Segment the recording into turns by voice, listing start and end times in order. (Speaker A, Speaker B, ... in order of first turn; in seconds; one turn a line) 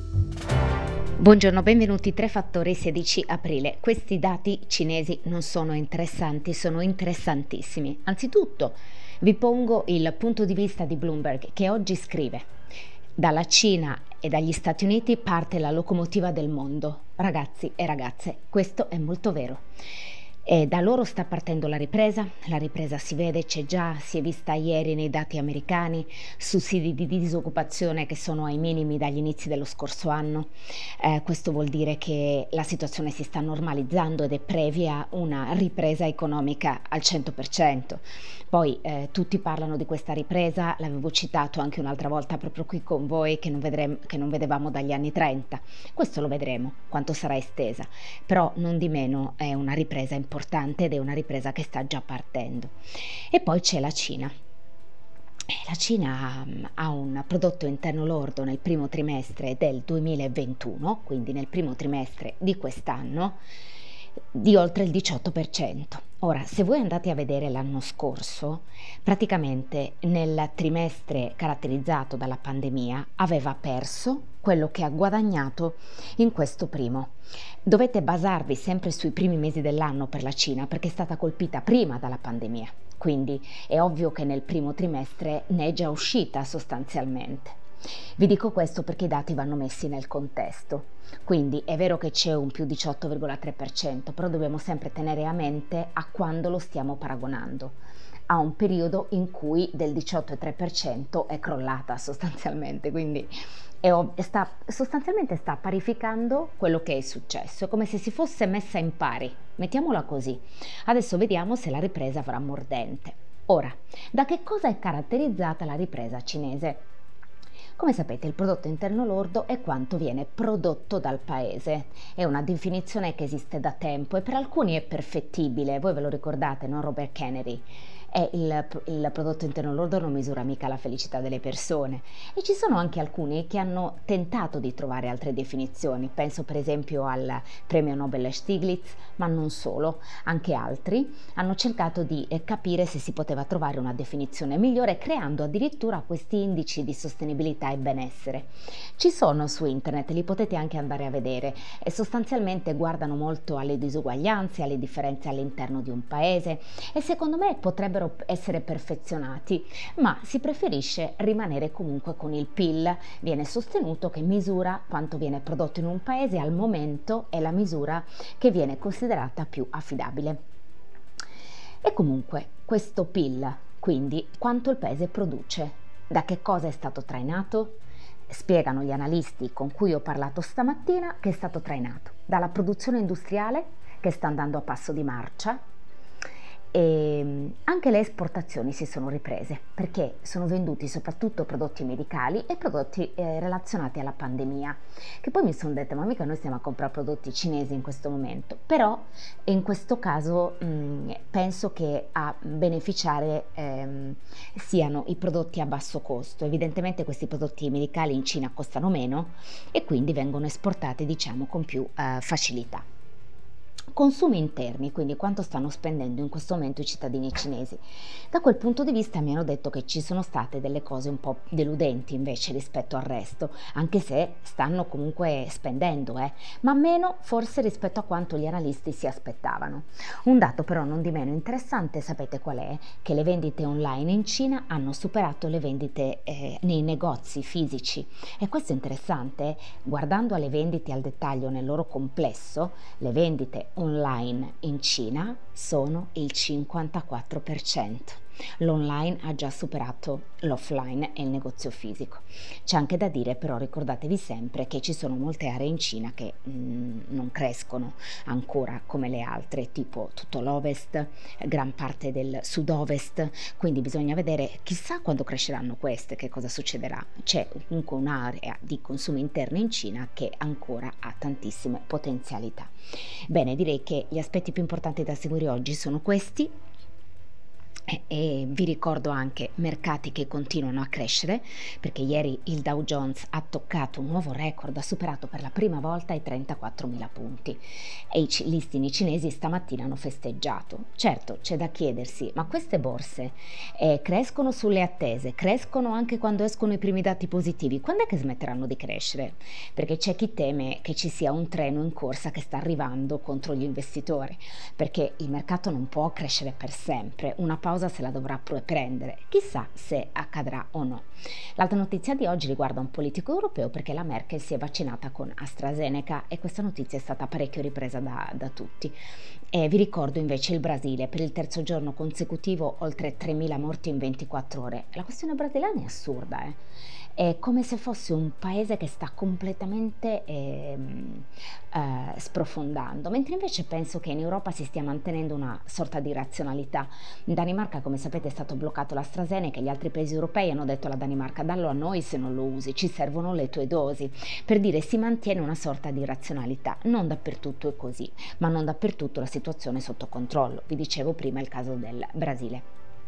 Speaker A: 1.2-12.5
Speaker A: 13.2-19.6
Speaker A: 20.4-52.7
Speaker A: 53.3-54.3
Speaker A: 55.5-63.4
Speaker A: 64.3-77.1
Speaker A: 77.6-87.6
Speaker A: 88.2-97.8
Speaker A: 98.3-116.8
Speaker A: 117.8-170.4
Speaker A: 171.8-177.8
Speaker A: 178.3-185.6
Speaker A: 186.7-212.8
Speaker A: 213.9-272.7
Speaker A: 273.3-276.5
Speaker A: 277.9-319.0
Speaker A: 319.5-326.6
Speaker A: 327.1-352.6